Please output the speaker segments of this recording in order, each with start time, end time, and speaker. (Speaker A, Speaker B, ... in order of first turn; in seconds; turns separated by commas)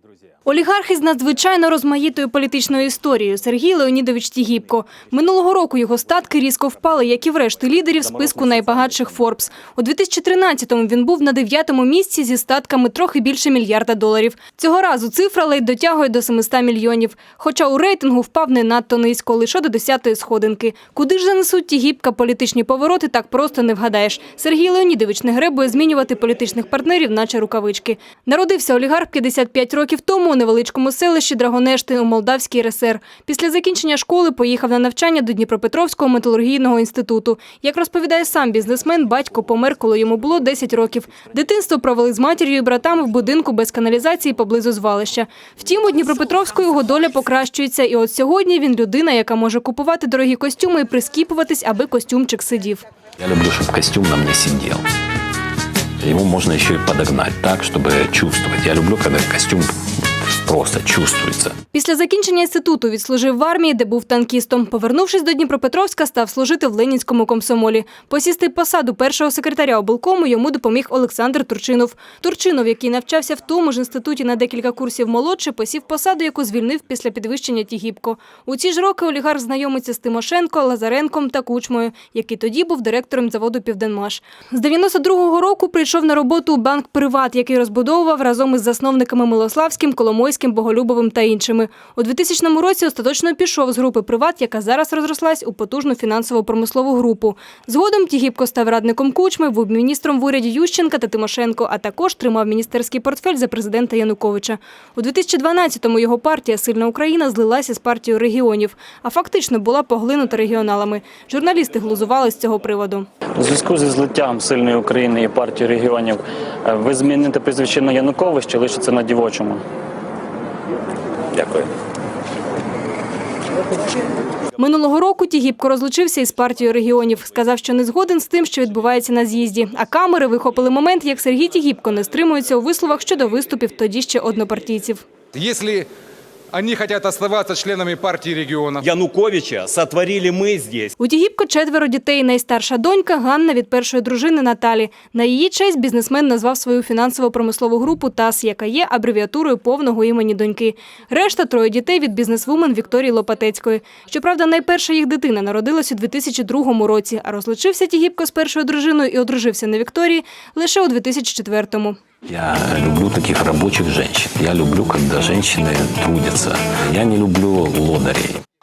Speaker A: 0.4-52.8, Speaker B: 53.2-54.9, Speaker B: 56.0-59.7, Speaker B: 60.4-61.5, Speaker A: 61.7-113.1, Speaker C: 113.4-119.6, Speaker C: 121.3-121.7, Speaker A: 124.6-135.1, Speaker D: 135.3-135.9, Speaker D: 136.5-138.8, Speaker E: 138.8-140.9, Speaker A: 141.0-162.0, Speaker B: 162.3-168.4